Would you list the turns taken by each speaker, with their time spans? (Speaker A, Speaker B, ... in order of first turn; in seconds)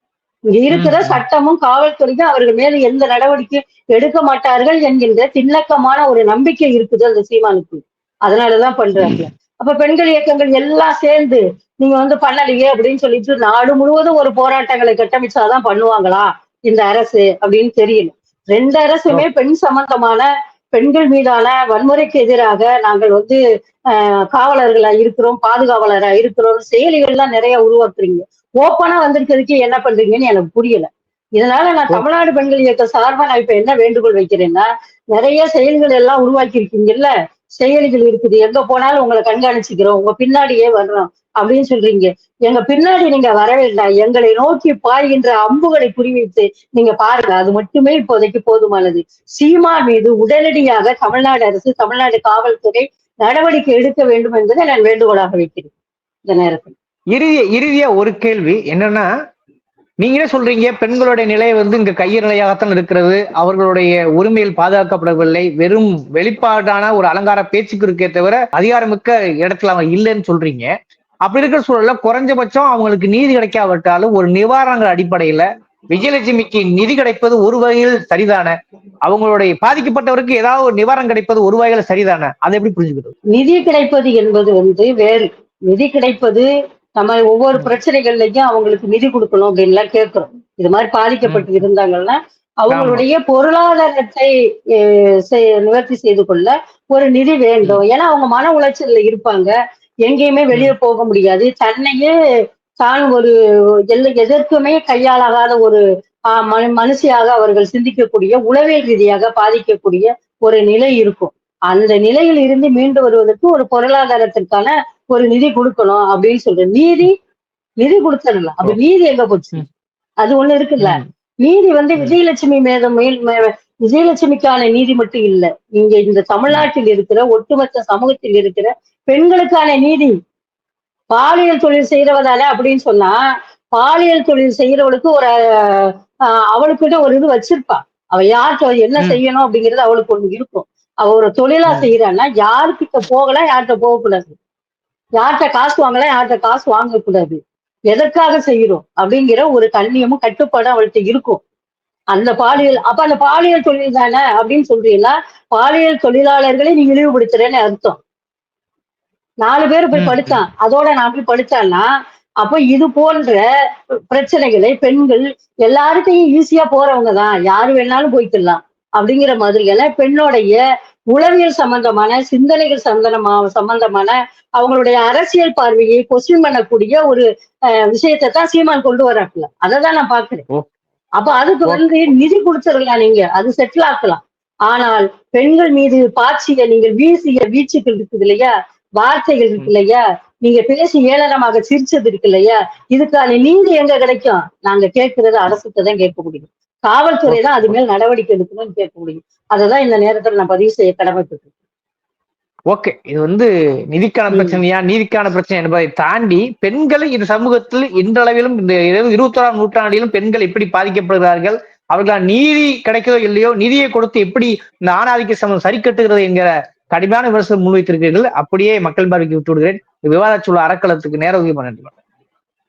Speaker A: 0.5-23.4, 23.9-55.7, 56.2-56.7, 83.3-99.5, 100.0-102.1, 102.8-103.3, 103.9-105.8, 106.3-117.1, 117.8-119.6, 120.2-130.1, 131.1-133.2, 133.7-135.9, 136.5-144.3, 145.2-147.4, 147.9-151.4, 152.1-158.0, 159.4-161.9, 162.4-163.4, 164.1-170.6, 171.1-177.2, 177.9-180.4, 181.2-201.5, 204.3-204.6
Speaker B: 0.7-1.2, 57.1-59.0, 60.0-70.7, 71.2-78.5, 79.0-83.1, 91.3-91.6, 92.7-93.0, 120.8-121.0, 159.9-160.4, 197.3-197.7, 202.7-221.9